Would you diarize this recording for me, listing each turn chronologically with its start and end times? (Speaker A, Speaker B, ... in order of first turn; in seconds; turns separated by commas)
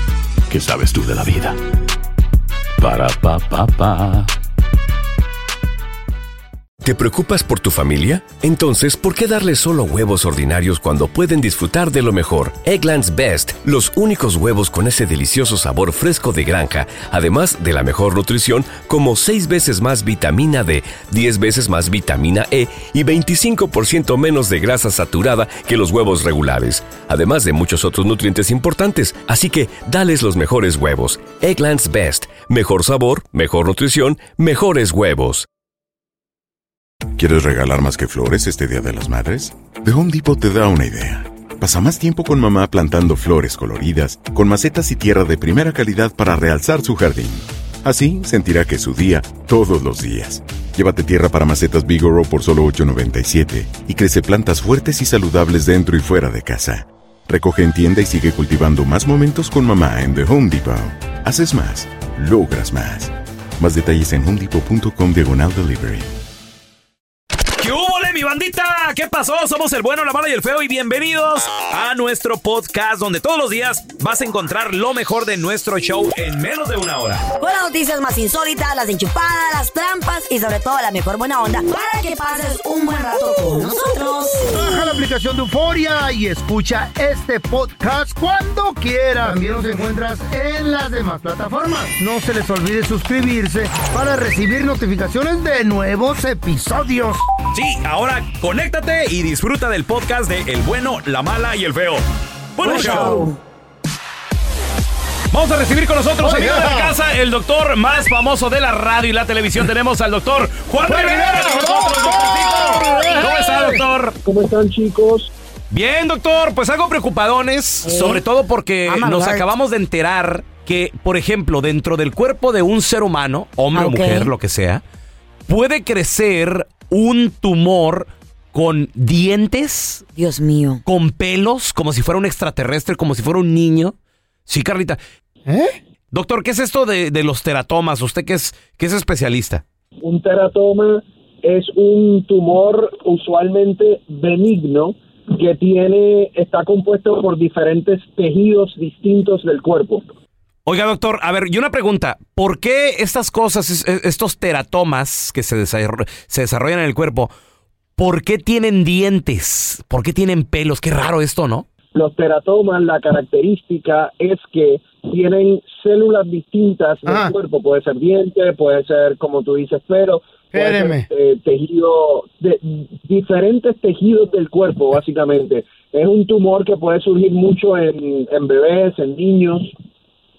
Speaker A: 0.5-1.6, Speaker A: 2.8-4.3, Speaker B: 6.8-35.5, Speaker C: 37.1-66.1, Speaker D: 67.6-77.2, Speaker E: 77.4-84.6, Speaker F: 84.5-97.2, Speaker D: 97.5-102.0, Speaker D: 102.5-103.3, Speaker E: 102.6-103.4, Speaker D: 105.3-114.2, Speaker F: 106.2-106.9, Speaker F: 110.8-113.8, Speaker G: 114.2-115.3, Speaker D: 115.7-124.8, Speaker E: 117.8-118.2, Speaker E: 118.9-119.4, Speaker E: 123.7-124.3, Speaker D: 125.5-130.0, Speaker E: 130.1-130.8, Speaker D: 130.8-133.9, Speaker D: 134.5-135.0, Speaker F: 135.4-135.7, Speaker D: 136.1-139.6, Speaker G: 140.0-150.1, Speaker D: 150.7-157.3, Speaker D: 158.0-161.7, Speaker G: 161.9-179.7, Speaker F: 167.1-167.3, Speaker F: 170.5-171.1